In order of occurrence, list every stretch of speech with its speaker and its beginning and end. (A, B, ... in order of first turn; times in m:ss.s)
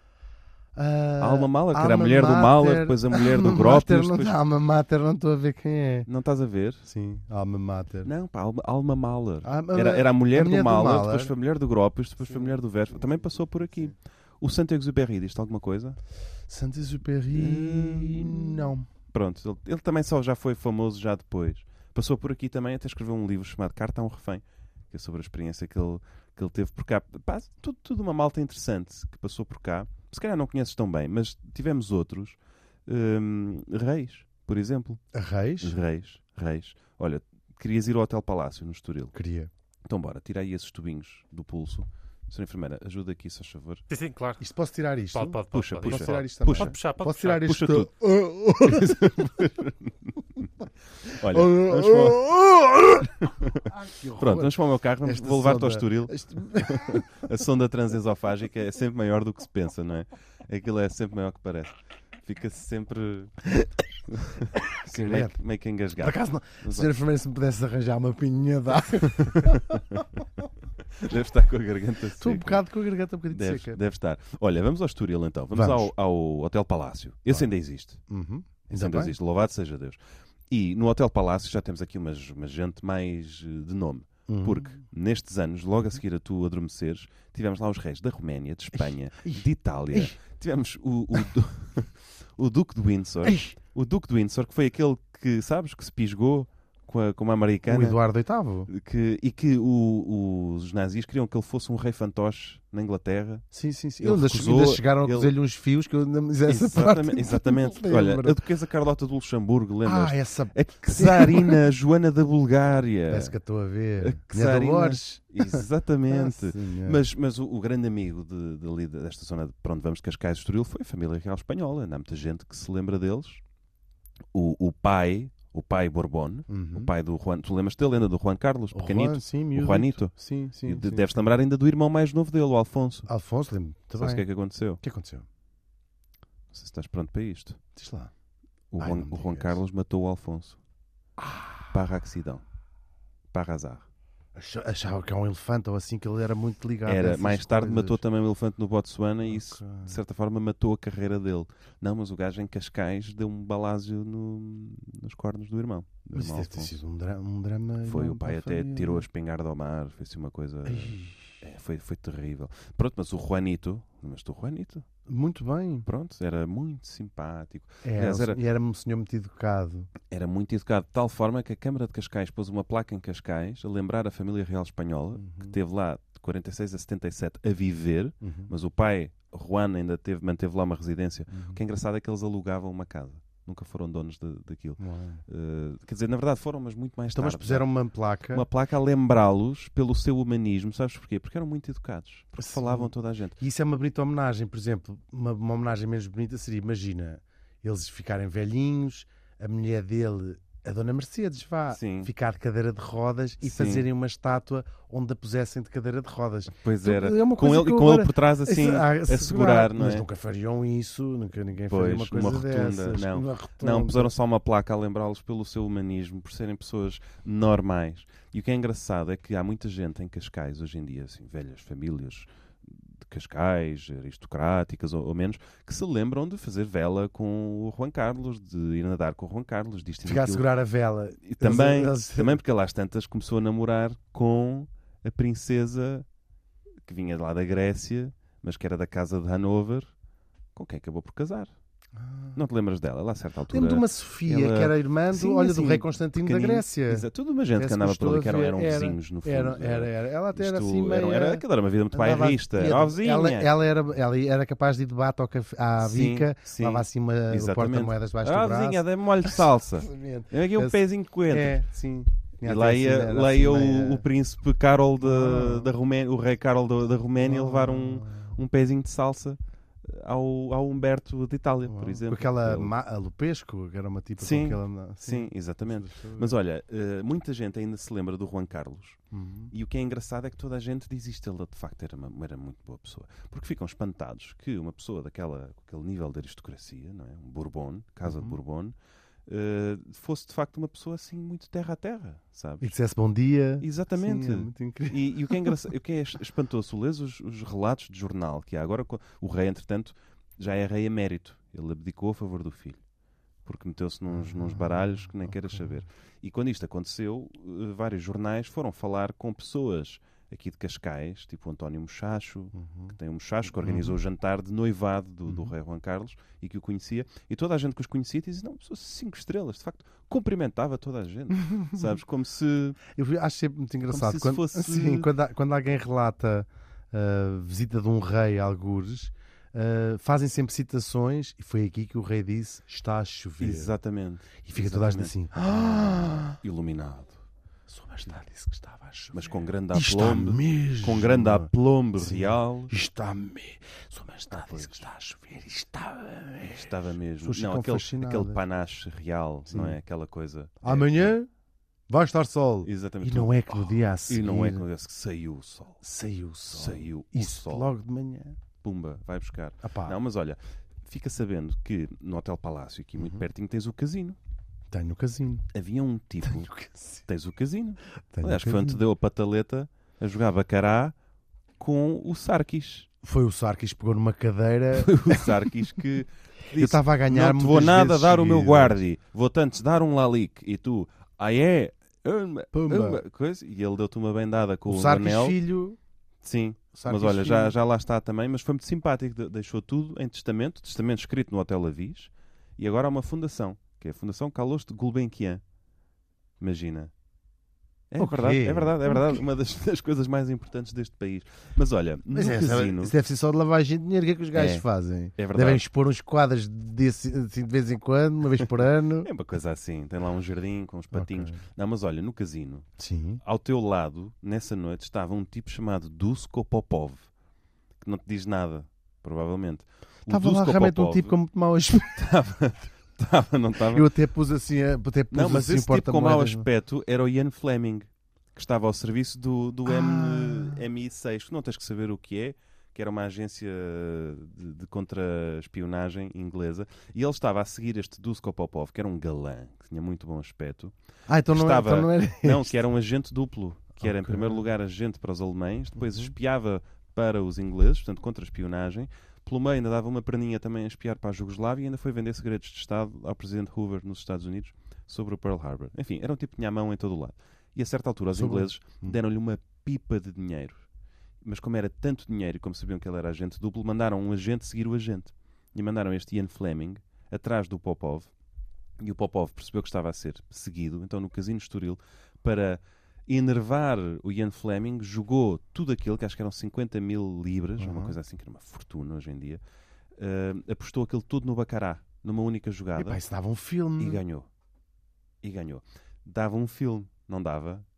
0:00.8-0:06.1 A
0:01.2-0:04.4 B
0:06.1-0:06.9 B
0:06.8-0:08.1 A
0:08.0-0:16.0 B
0:09.4-0:11.3 A
0:16.5-0:18.9 A
0:17.3-0:35.0 B
0:35.1-0:35.8 A
0:35.6-0:39.1 B
0:39.1-0:39.5 A
0:39.9-0:43.8 B
0:43.9-0:44.4 C
0:44.4-0:49.2 A
0:45.1-0:47.5 C
0:45.5-0:47.9 B
0:48.6-0:50.5 B
0:51.0-0:52.4 B
0:51.1-0:53.1 A
0:53.0-1:03.4 B
0:53.6-0:57.1 A
1:04.1-1:06.9 B
1:04.7-1:05.4 A
1:06.0-1:10.0 A
1:09.1-1:10.0 B
1:11.0-1:12.7 B
1:12.2-1:13.8 A
1:13.3-1:18.0 B
1:15.5-1:15.9 A
1:18.1-1:19.2 A
1:18.7-1:38.0 B
1:24.3-1:24.8 A
1:28.8-1:30.2 A
1:33.2-1:33.5 A
1:37.7-1:38.7 A
1:38.7-1:43.4 B
1:43.5-1:48.4 A
1:44.0-1:45.3 B
1:46.5-1:53.4 B
1:49.8-1:51.7 A
1:53.1-1:57.0 A
1:54.0-2:03.4 B
2:04.3-2:13.1 B
2:06.5-2:06.9 A
2:08.7-2:11.1 A
2:13.1-2:14.2 A
2:14.0-2:14.8 B
2:14.8-2:15.3 A
2:16.5-2:17.6 B
2:17.8-2:18.1 A
2:18.7-2:20.6 B
2:18.8-2:19.6 A
2:21.2-2:21.7 A
2:21.7-2:22.4 B
2:23.3-2:23.9 B
2:24.4-2:28.0 A
2:26.8-2:36.7 B
2:29.2-2:30.0 A
2:36.1-2:39.1 A
2:37.8-2:44.9 B
2:40.7-2:41.4 A
2:45.1-2:45.9 A
2:45.9-2:48.4 B
2:47.8-2:49.9 A
2:50.1-3:07.7 B
2:55.2-2:55.6 A
2:58.2-2:58.5 A
3:01.3-3:01.6 A
3:04.8-3:05.2 A
3:07.1-3:08.4 A
3:08.3-3:13.4 B
3:12.4-3:34.1 A
3:21.7-3:22.1 B
3:23.4-3:23.9 B
3:26.6-3:30.1 B
3:31.7-3:50.5 B
3:50.0-3:52.4 A
3:51.3-3:56.1 B
3:56.8-3:59.9 B
4:00.6-4:01.5 B
4:02.0-4:02.4 A
4:02.4-4:13.5 B
4:03.5-4:24.0 A
4:15.8-4:21.6 B
4:22.4-4:32.7 B
4:25.0-4:25.7 A
4:27.2-4:28.4 A
4:31.7-4:36.3 A
4:34.2-4:39.0 B
4:39.1-4:39.5 A
4:39.5-4:48.8 B
4:48.0-4:48.4 A
4:49.3-4:52.7 B
4:52.6-4:55.7 A
4:53.6-5:02.8 B
5:03.4-5:22.8 B
5:04.1-5:05.6 A
5:12.6-5:13.0 A
5:13.6-5:14.0 A
5:15.3-5:15.5 A
5:21.3-5:21.8 A
5:22.9-5:33.7 A
5:23.9-5:25.1 B
5:33.4-5:37.2 B
5:34.4-5:36.4 A
5:37.7-5:48.4 A
5:39.1-5:42.7 B
5:44.3-5:44.9 B
5:46.5-5:51.1 B
5:49.5-5:49.8 A
5:50.6-5:51.3 A
5:51.9-5:54.7 A
5:52.6-5:55.8 B
5:55.8-5:58.4 A
5:56.5-5:57.7 B
5:58.6-6:04.2 B
5:59.6-6:00.0 A
6:03.0-6:03.2 A
6:04.7-6:05.5 A
6:05.5-6:06.5 B
6:06.2-6:07.0 A
6:07.1-6:11.0 B
6:08.1-6:08.8 A
6:11.6-6:12.9 B
6:13.0-6:15.5 A
6:14.7-6:25.4 B
6:16.5-6:18.8 A
6:22.5-6:23.0 A
6:24.7-6:25.8 A
6:26.2-6:35.4 B
6:26.7-6:27.6 A
6:36.4-6:36.9 B
6:37.9-6:43.0 B
6:38.0-6:39.2 A
6:42.1-6:49.1 A
6:44.3-6:45.6 B
6:49.0-6:52.7 B
6:50.9-6:51.4 A
6:52.8-6:53.2 A
6:53.2-6:57.1 B
6:57.8-7:01.2 B
7:00.1-7:02.0 A
7:01.7-7:03.9 B
7:03.7-7:06.5 A
7:05.1-7:20.7 B
7:09.7-7:10.6 A
7:21.1-7:22.6 A
7:21.3-7:40.7 B
7:23.8-7:24.4 A
7:25.8-7:26.1 A
7:38.1-7:39.0 A
7:41.2-7:48.1 B
7:48.8-7:59.4 B
7:57.6-7:58.0 A
8:00.0-8:03.0 B
8:02.8-8:04.0 A
8:03.8-8:04.3 B
8:05.2-8:07.6 B